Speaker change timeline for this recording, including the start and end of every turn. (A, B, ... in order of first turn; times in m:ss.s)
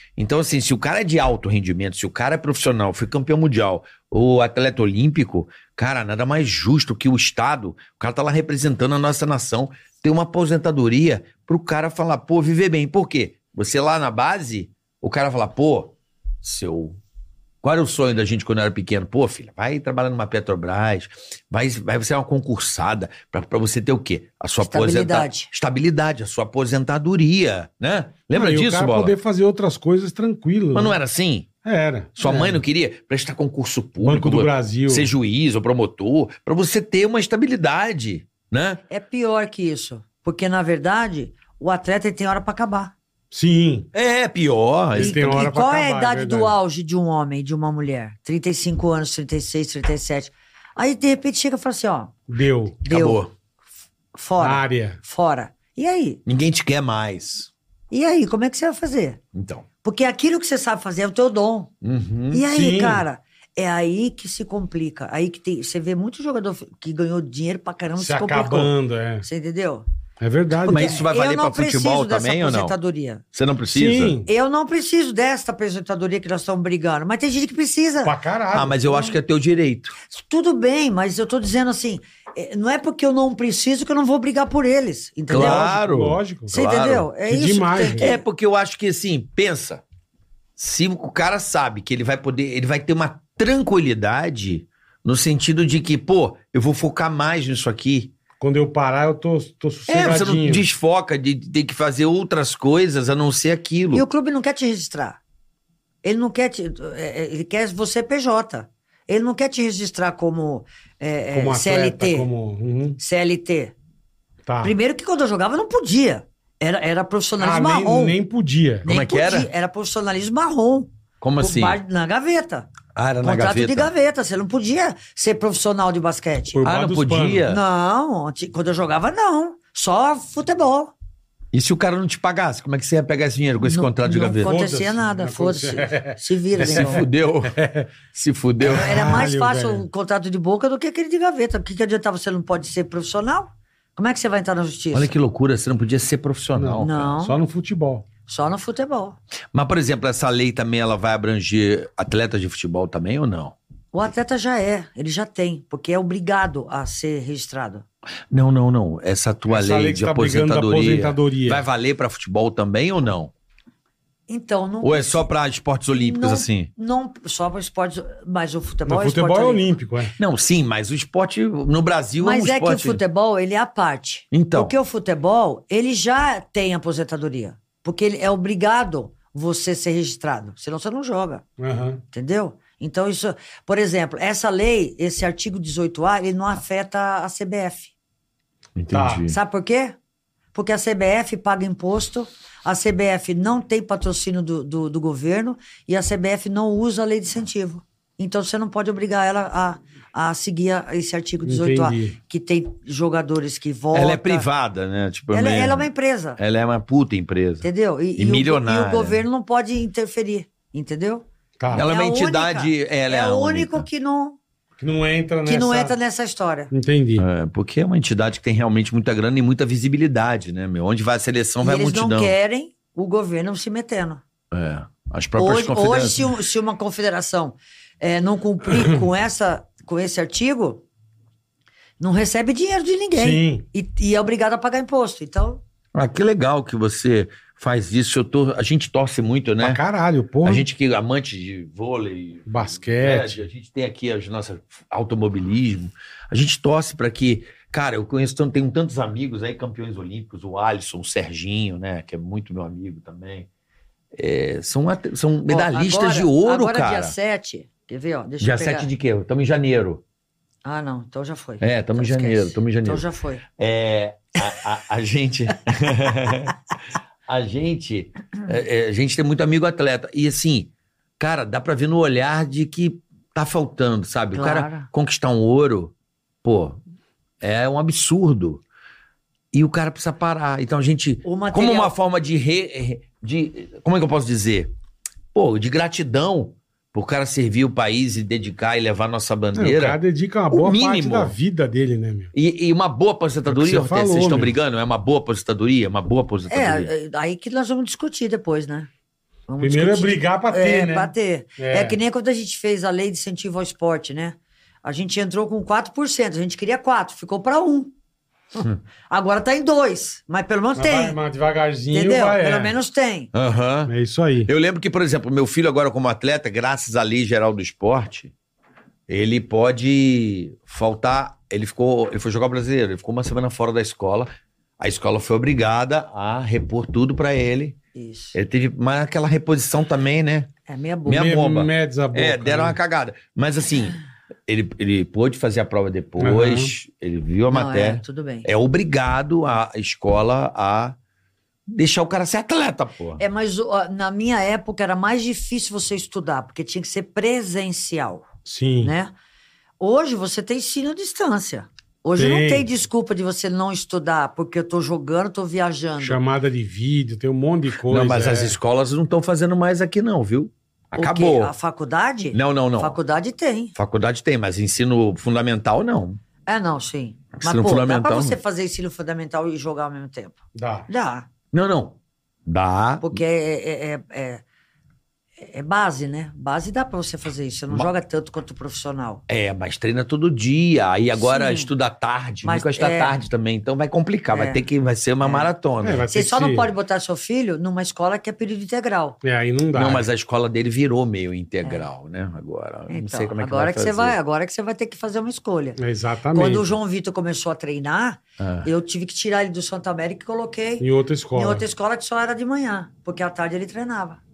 0:00.2-0:17.0 A
0:17.6-0:29.1 A
0:24.6-0:25.5 B
0:28.3-0:31.0 C
0:30.7-0:31.5 A
0:31.6-0:32.6 C
0:32.2-0:38.8 A
0:34.0-0:35.1 C
0:38.9-0:42.9 B
0:43.3-0:43.9 C
0:43.9-0:45.4 A
0:44.9-0:46.6 C
0:45.0-0:52.1 B
0:52.3-0:52.8 C
0:52.8-0:53.2 B
0:52.9-0:53.3 A
0:54.1-0:56.2 B
0:54.4-0:55.0 C
0:56.2-0:57.5 A
0:57.9-0:59.2 B
0:59.3-0:59.6 A
0:59.8-1:01.7 B
1:01.8-1:02.4 A
1:02.3-1:09.8 B
1:02.5-1:03.0 C
1:08.0-1:09.2 C
1:10.2-1:11.0 C
1:10.6-1:13.2 B
1:10.7-1:12.7 A
1:13.3-1:14.2 A
1:13.7-1:14.3 C
1:14.2-1:18.2 B
1:18.0-1:19.0 C
1:18.5-1:19.9 A
1:20.1-1:25.7 B
1:25.3-1:27.1 A
1:25.3-1:26.6 C
1:26.5-1:28.2 B
1:27.2-1:28.1 C
1:27.9-1:29.8 A
1:30.6-1:38.1 A
1:38.4-1:40.6 C
1:39.9-1:44.0 A
1:43.9-1:45.2 B
1:46.0-1:52.3 B
1:51.3-1:53.0 C
1:53.0-1:53.7 B
1:54.4-1:54.7 C
1:54.6-1:58.2 B
1:57.4-1:58.9 C
1:58.8-2:02.7 B
1:58.8-1:59.5 A
2:01.2-2:01.8 A
2:02.9-2:03.9 A
2:03.2-2:06.6 B
2:06.5-2:07.4 C
2:06.6-2:07.6 A
2:07.5-2:10.9 B
2:11.5-2:14.6 A
2:13.6-2:17.0 B
2:14.4-2:17.9 C
2:16.6-2:19.1 A
2:18.6-2:19.8 C
2:18.6-2:25.1 B
2:24.9-2:27.0 A
2:26.6-2:28.0 C
2:26.8-2:27.4 B
2:28.2-2:29.2 B
2:29.5-2:33.6 A
2:33.9-2:37.8 B
2:38.3-2:43.3 A
2:39.5-2:41.6 C
2:44.3-2:45.3 B
2:44.8-2:46.7 A
2:46.0-2:49.6 B
2:48.8-2:50.1 C
2:50.2-2:53.0 A
2:52.2-3:01.4 B
2:54.3-2:54.7 A
3:01.6-3:02.0 C
3:02.1-3:07.9 B
3:08.8-3:09.3 A
3:08.9-3:09.3 C
3:09.3-3:10.0 B
3:10.5-3:24.5 B
3:21.4-3:22.2 C
3:23.9-3:25.9 A
3:25.3-3:26.4 B
3:26.4-3:29.2 A
3:27.6-3:34.4 B
3:31.6-3:31.8 C
3:31.7-3:33.8 A
3:34.8-3:36.0 C
3:35.4-3:36.7 B
3:36.7-3:37.3 C
3:37.2-3:42.3 A
3:41.6-3:44.2 B
3:44.5-3:46.3 A
3:45.4-3:50.8 B
3:52.0-3:55.6 B
3:53.2-3:53.6 C
3:55.9-3:59.8 A
3:59.6-4:00.6 C
4:00.4-4:13.5 A
4:02.5-4:03.4 C
4:14.1-4:17.1 A
4:15.5-4:18.9 B
4:18.4-4:20.0 A
4:20.6-4:23.4 B
4:21.6-4:23.0 A
4:23.6-4:26.6 A
4:27.3-4:35.9 A
4:34.3-4:34.9 B
4:36.4-4:36.8 A
4:37.4-4:38.6 A
4:39.5-4:44.7 A
4:41.2-4:41.9 B
4:45.3-4:50.0 A
4:49.5-4:52.3 C
4:50.5-4:51.3 A
4:52.3-4:56.9 A
4:53.5-4:54.5 C
4:56.5-4:58.9 B
4:59.5-5:07.9 B
4:59.6-5:02.0 C
5:08.6-5:11.2 B
5:10.7-5:12.8 C
5:11.9-5:13.3 B
5:13.3-5:13.9 A
5:13.9-5:14.5 C
5:14.4-5:18.3 A
5:19.1-5:27.8 A
5:27.9-5:28.4 B
5:28.3-5:30.5 A
5:30.7-5:31.3 B
5:31.0-5:41.0 A
5:31.1-5:32.8 C
5:36.2-5:36.8 C
5:37.5-5:38.5 B
5:41.7-5:43.2 A
5:43.2-5:48.2 B
5:48.4-5:48.9 C
5:48.8-5:49.1 B
5:49.8-5:56.2 B
5:52.2-5:52.7 C
5:56.0-5:58.6 C
5:57.9-6:01.5 A
6:01.0-6:03.7 B
6:02.3-6:03.0 A
6:03.8-6:06.2 A
6:06.5-6:11.3 B
6:07.4-6:08.4 A
6:10.5-6:10.9 C
6:11.5-6:12.0 A
6:12.5-6:13.2 A
6:13.0-6:14.4 B
6:15.4-6:19.2 B
6:19.3-6:26.0 A
6:21.1-6:21.7 B
6:22.4-6:23.1 B
6:24.3-6:24.6 B
6:25.2-6:25.5 B
6:25.8-6:26.7 C
6:26.1-6:29.2 B
6:29.2-6:30.1 C
6:29.7-6:34.2 A
6:32.9-6:35.8 B
6:35.8-6:36.6 C
6:36.3-6:44.2 B
6:38.4-6:38.7 A
6:40.8-6:41.6 C